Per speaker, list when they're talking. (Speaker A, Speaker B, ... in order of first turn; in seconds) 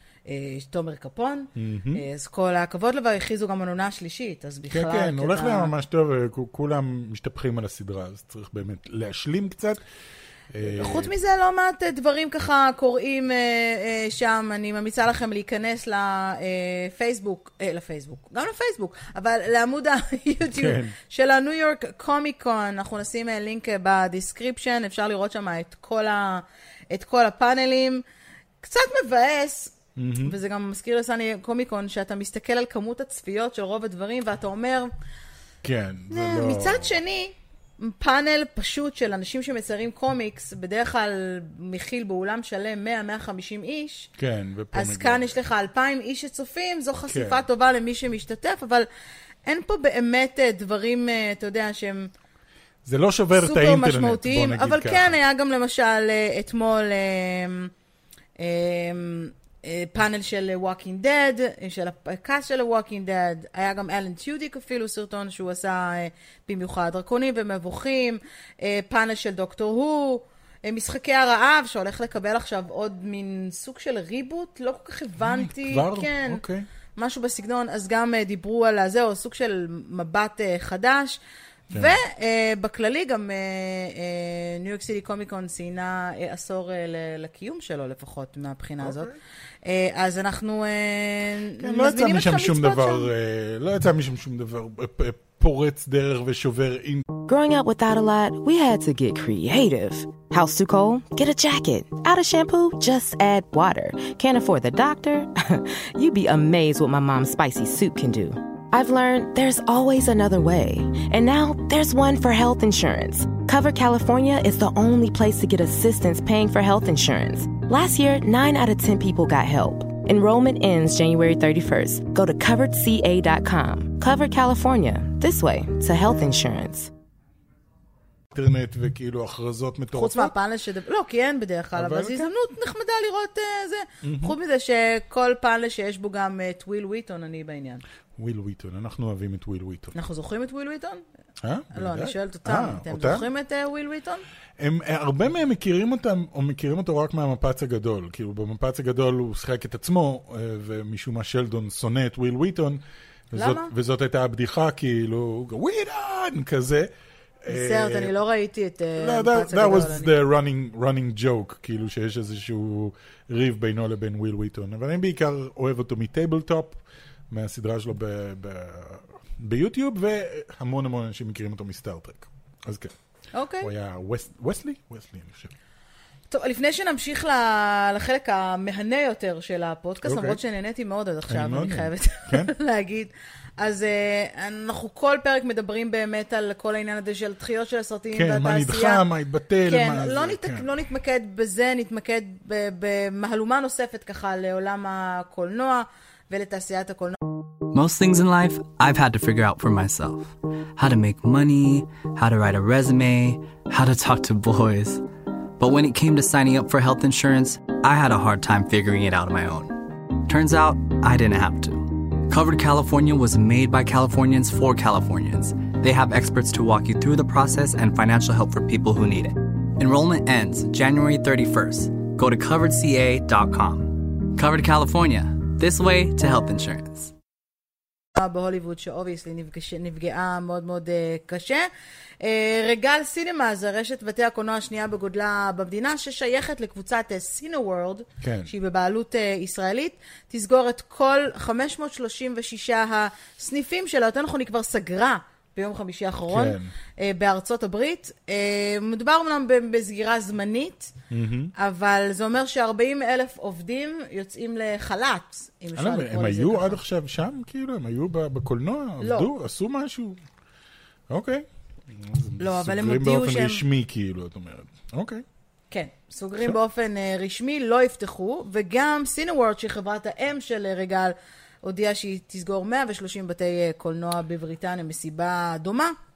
Speaker A: 0.3-5.7, 10.7-28.0, 28.6-34.9, 36.1-44.1, 44.7-48.9, 49.5-52.1, 53.3-57.7, 58.4-76.4, 77.0-81.2, 81.7-89.1, 89.6-93.1, 129.9-137.8, 139.9-141.0, 141.7-144.2, 153.3-153.7, 157.5-160.2, 173.3-173.7, 176.3-189.0, 189.7-197.2, 228.2-231.7, 232.2-250.9, 251.6-256.8, 259.0-259.3, 262.4-263.6, 265.7-275.9
Speaker B: 1.6-2.0, 4.7-9.8, 10.5-11.1, 20.5-20.9, 29.9-30.3, 35.6-37.0, 44.2-45.3, 47.0-47.4, 52.8-55.2, 75.2-76.7, 88.8-89.2, 91.6-97.0, 128.3-130.3, 131.7-132.3, 134.0-134.3, 138.2-139.9, 141.4-143.3, 144.6-156.9, 157.4-158.1, 159.0-172.9, 173.6-175.5, 180.0-180.4, 181.3-182.5, 188.1-190.7, 238.2-238.5, 246.3-246.7, 251.1-251.5, 255.7-260.2, 261.1-265.2
Speaker C: 97.3-126.9
Speaker D: 197.7-205.0, 205.6-227.1